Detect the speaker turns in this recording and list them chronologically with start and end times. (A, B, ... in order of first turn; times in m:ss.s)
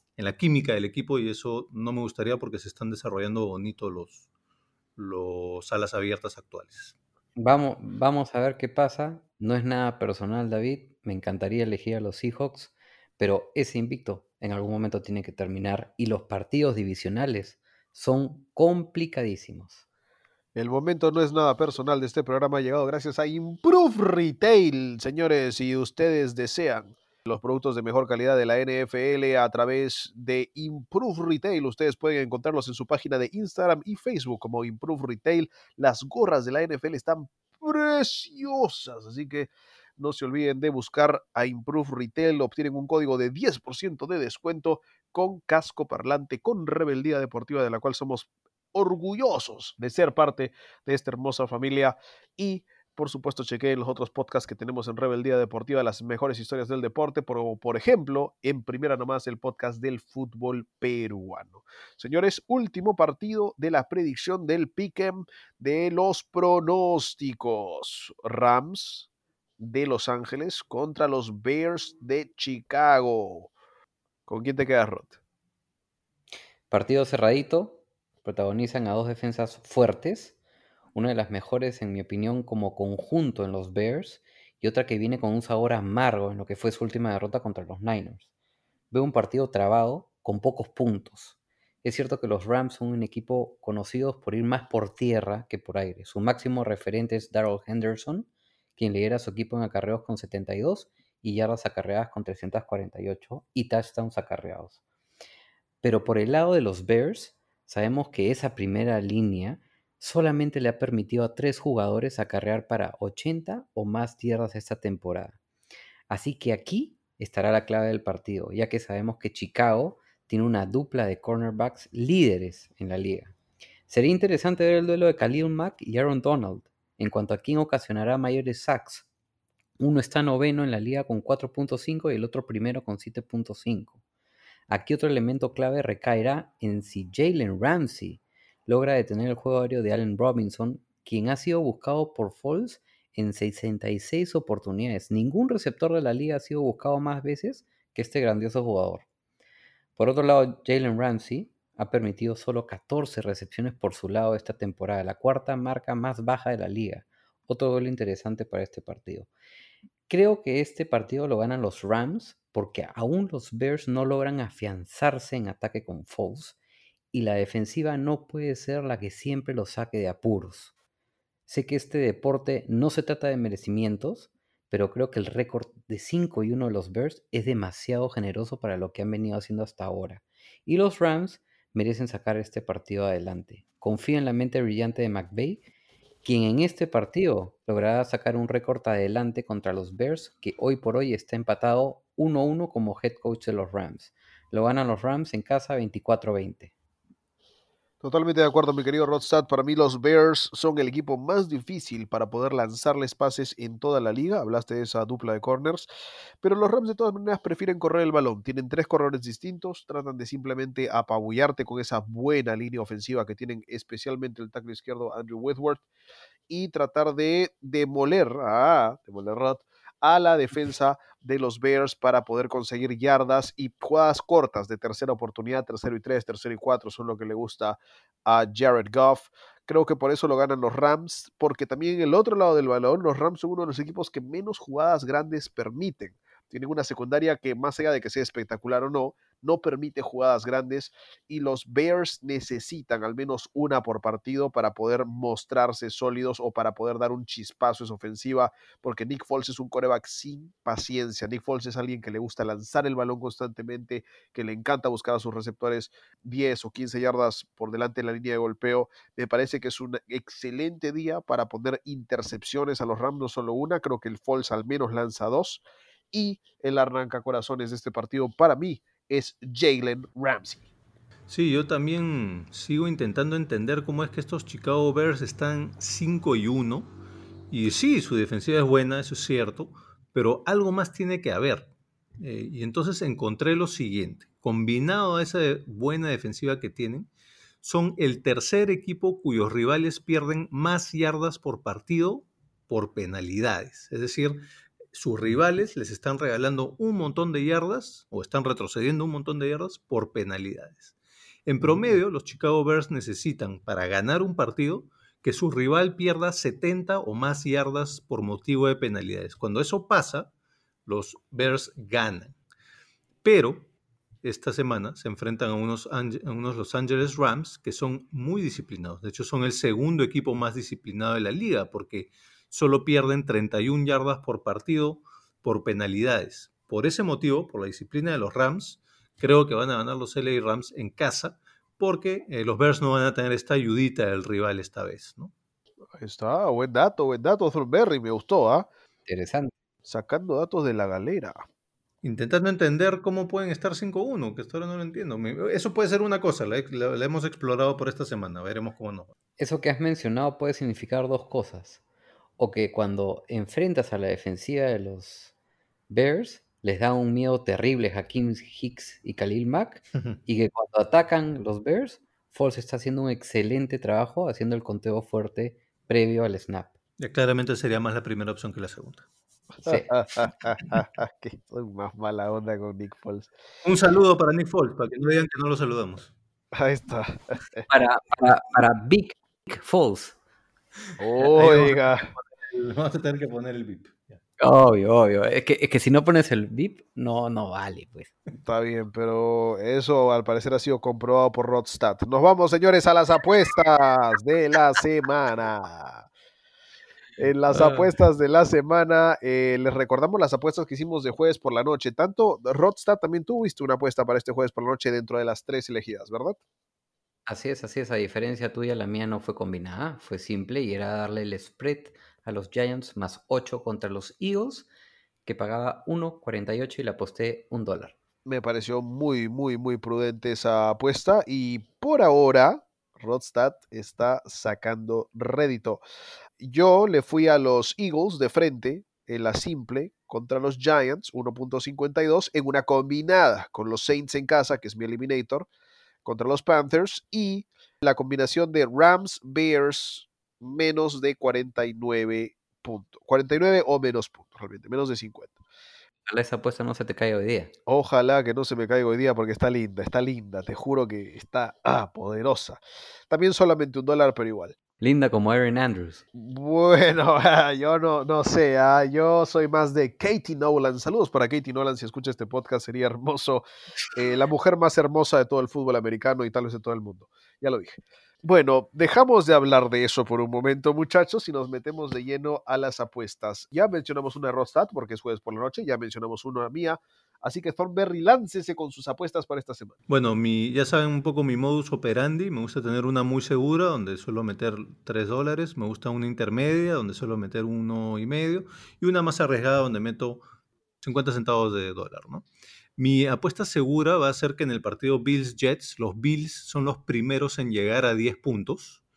0:00.2-0:04.3 A
0:05.0-0:07.0 A
0:07.4-0:19.8 B
0:20.6-1:09.1 C
1:09.6-1:13.5 C
1:14.3-1:15.2 C
1:16.7-1:20.4 B
1:21.0-1:28.3 B
1:28.9-1:44.8 B
1:45.8-1:55.4 B
1:56.1-2:03.4 B
2:03.9-2:09.1 B
2:09.8-2:14.0 B
2:14.7-2:29.0 B
2:30.0-2:39.3 B
2:40.1-2:46.6 B
2:47.1-2:50.7 B
2:51.5-3:05.6 B
3:06.2-3:16.7 B
3:18.0-3:25.9 C
3:26.4-3:35.8 C
3:36.5-4:30.7 C
4:31.3-4:36.9 A
4:37.5-4:47.1 A
4:47.6-5:01.0 A
5:01.5-5:10.3 A
5:10.9-5:12.4 A
5:13.2-5:13.7 A
5:14.2-5:35.3 A
5:36.0-5:38.7 C
5:39.1-5:39.5 B
5:39.8-5:41.4 C
5:42.0-5:49.1 A
5:49.4-5:51.8 B
5:52.4-5:55.3 B
5:55.9-6:06.7 B
6:07.0-6:09.1 A
6:09.6-6:13.3 C
6:13.6-6:16.1 A
6:16.5-6:17.7 C
6:17.7-6:20.2 B
6:21.0-6:22.1 C
6:21.2-6:24.2 A
6:24.4-6:28.1 B
6:28.4-6:36.1 C
6:37.2-6:46.4 C
6:37.5-6:37.9 A
6:47.3-6:54.7 B
6:55.3-6:58.0 B
6:58.3-7:05.8 C
7:06.4-7:15.5 C
7:16.0-7:25.4 C
7:26.1-7:27.5 B
7:27.7-7:34.6 C
7:34.8-7:36.0 B
7:36.1-7:59.8 C
7:59.9-8:10.2 A
8:10.8-8:12.2 A
8:12.8-8:18.8 A